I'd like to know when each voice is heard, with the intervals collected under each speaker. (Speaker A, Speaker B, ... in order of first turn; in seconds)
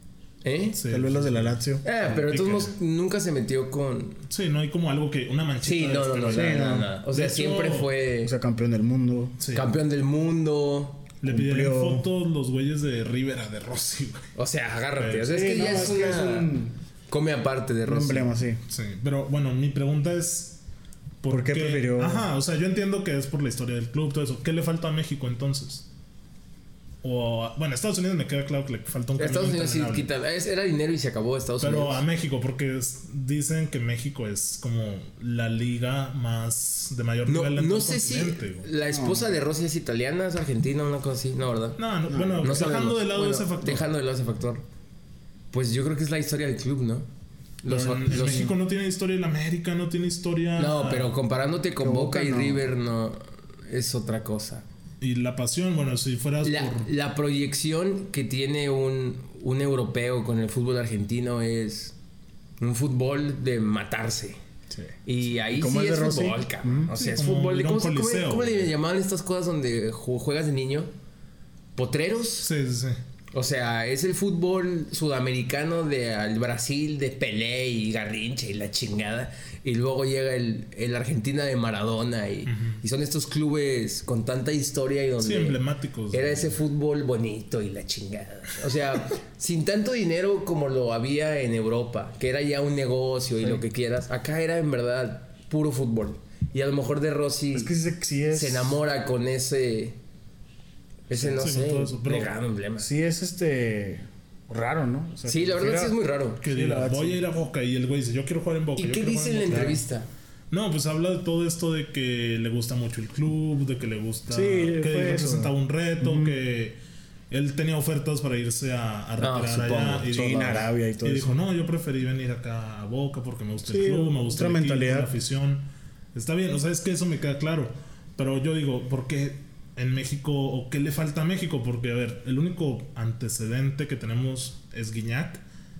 Speaker A: 0.4-0.8, 1.8-4.2, 5.6-8.3, 9.5-11.0, 14.3-16.5, 17.1-18.3, 29.2-32.0, 37.3-41.8, 42.4-44.6, 45.5-47.1, 47.6-48.5, 50.6-54.6, 56.4-61.9, 62.6-64.4, 65.0-70.9, 71.8-72.5, 73.3-85.6, 86.1-97.7, 98.3-100.0, 101.1-102.9, 105.3-106.4, 108.8-110.1, 119.2-120.5
Speaker B: 0.8-2.7, 4.3-7.9, 9.4-9.7, 11.2-14.3, 14.9-15.9, 18.7-20.6, 21.2-25.8, 27.0-30.1, 31.6-38.7, 41.8-43.9, 47.7-51.1, 55.0-56.9, 66.9-68.7, 72.4-73.0, 82.5-82.8, 85.2-86.6, 101.2-102.3, 106.4-109.8, 110.5-116.8, 117.3-135.4
Speaker C: 0.8-1.8, 6.3-6.9, 8.2-9.4, 11.2-12.1, 15.2-16.7, 17.9-18.6, 21.3-22.3, 38.9-39.3, 42.1-42.5, 48.1-48.5, 51.8-52.7, 64.7-66.9, 97.5-98.8, 102.8-107.2, 114.3-116.4, 120.0-121.4, 123.7-125.1